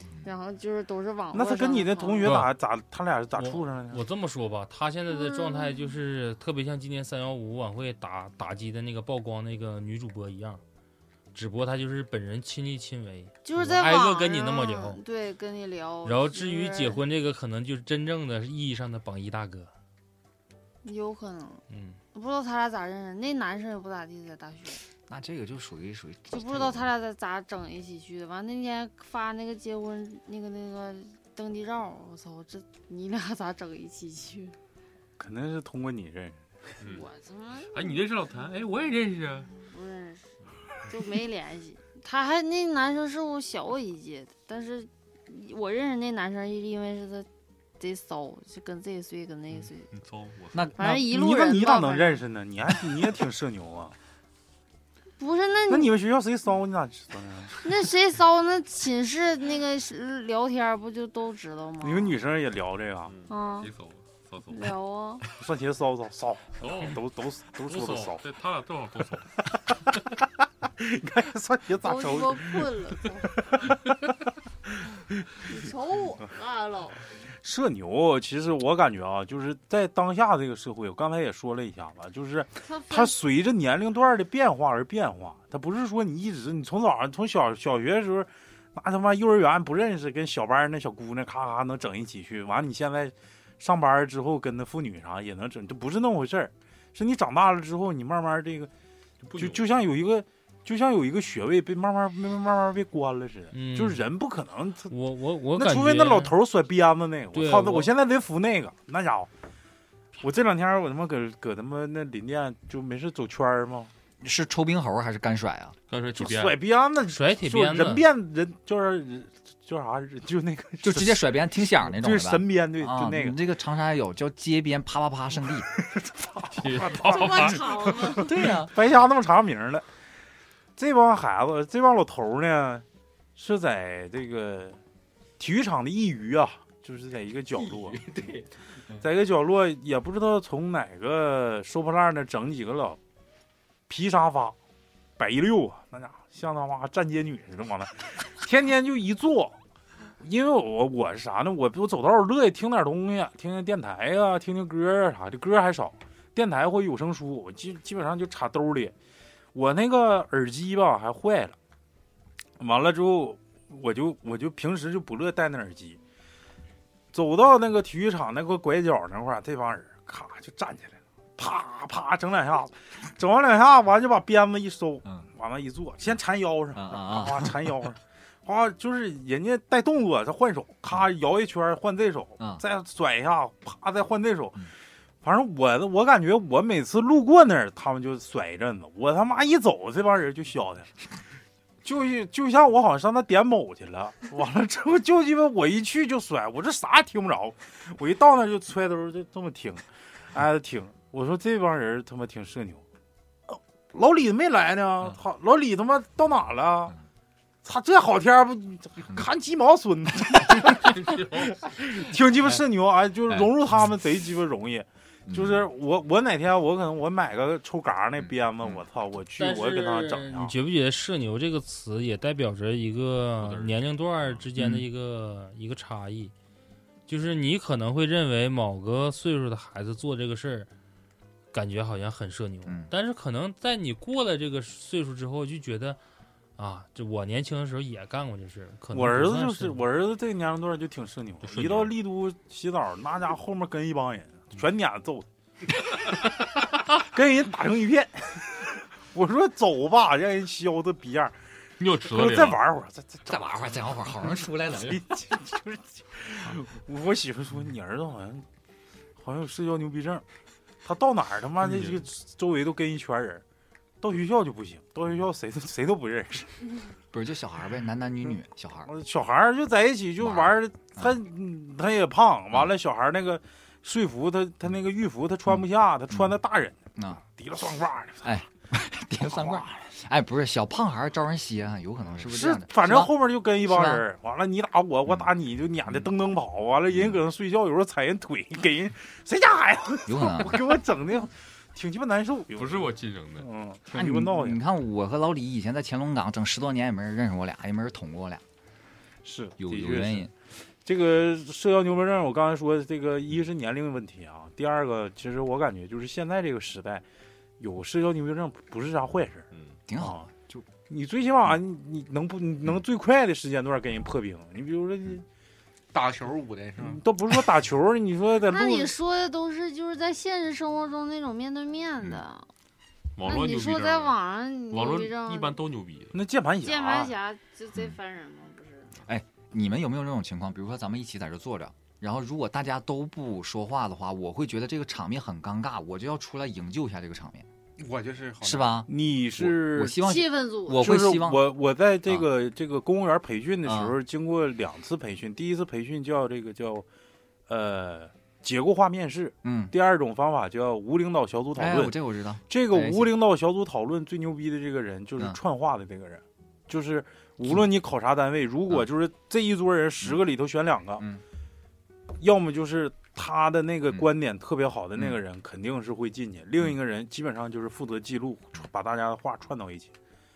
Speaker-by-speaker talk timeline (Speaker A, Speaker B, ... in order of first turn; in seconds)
Speaker A: 0.2-2.3, 5.1-6.0, 13.4-17.0, 20.8-21.6, 22.1-24.8, 26.3-34.5, 36.9-38.0, 39.4-40.3, 40.8-47.3, 47.8-49.9, 50.8-52.2, 55.2-55.9, 57.6-62.2, 63.3-63.7, 64.5-65.2, 71.8-73.3, 75.4-77.0, 82.6-83.2, 126.9-128.3, 318.4-322.4, 323.2-325.6, 326.6-328.9, 340.0-340.9
Speaker B: 1.3-4.0, 35.2-36.4, 50.8-53.9, 55.7-57.5, 61.8-63.1, 65.4-68.2, 70.8-72.7, 73.5-73.8, 77.4-98.7, 99.3-104.9, 105.5-109.3, 110.2-113.9, 116.2-121.3, 121.8-123.4, 126.1-129.8, 130.8-132.8, 133.3-134.8, 135.4-138.3, 139.0-143.0, 143.9-144.6, 145.2-149.6, 150.2-158.9, 159.5-161.5, 162.6-166.0, 167.1-184.7, 185.2-190.9, 191.8-202.8, 203.5-206.9, 207.6-220.5, 238.9-245.2, 246.9-251.3, 252.0-253.4, 254.7-258.4, 259.2-260.2, 260.8-263.4, 264.0-266.5, 268.9-278.4, 279.2-279.7, 282.1-294.6, 299.2-300.3, 300.8-307.0, 307.6-309.4, 310.0-310.2, 310.9-315.2, 316.8-318.9, 326.1-327.1, 338.9-340.0, 340.8-346.8, 347.5-351.9, 352.5-361.1, 362.2-369.9
Speaker C: 3.4-10.6, 11.3-15.0, 16.0-19.7, 21.7-22.0, 103.5-104.0, 104.9-106.3, 107.3-107.9, 117.1-118.0, 219.4-226.3, 227.1-230.7, 231.5-236.0, 236.6-239.8
Speaker D: 25.1-26.9, 114.2-115.8, 120.8-125.7, 128.2-128.7, 176.7-177.8, 215.3-215.7, 224.6-224.8, 232.7-232.9, 253.2-255.3, 267.1-268.9, 270.2-271.2, 275.5-276.4, 276.9-277.2, 278.2-284.0, 285.8-286.1, 286.9-287.2, 290.1-290.6, 293.9-298.4, 299.6-300.3, 309.9-310.7, 329.1-337.4, 338.4-341.5, 343.6-343.9, 349.4-349.7, 351.5-353.1
Speaker E: 36.8-37.1, 37.7-39.5, 49.6-50.8, 63.1-64.7, 66.6-67.0, 67.6-69.3, 99.2-99.6, 115.9-116.6, 126.5-127.9, 223.4-224.4, 241.4-241.9, 251.8-252.6, 261.6-262.0, 292.5-293.5, 323.1-324.1, 324.7-326.1
Speaker F: 315.9-317.0, 337.8-338.8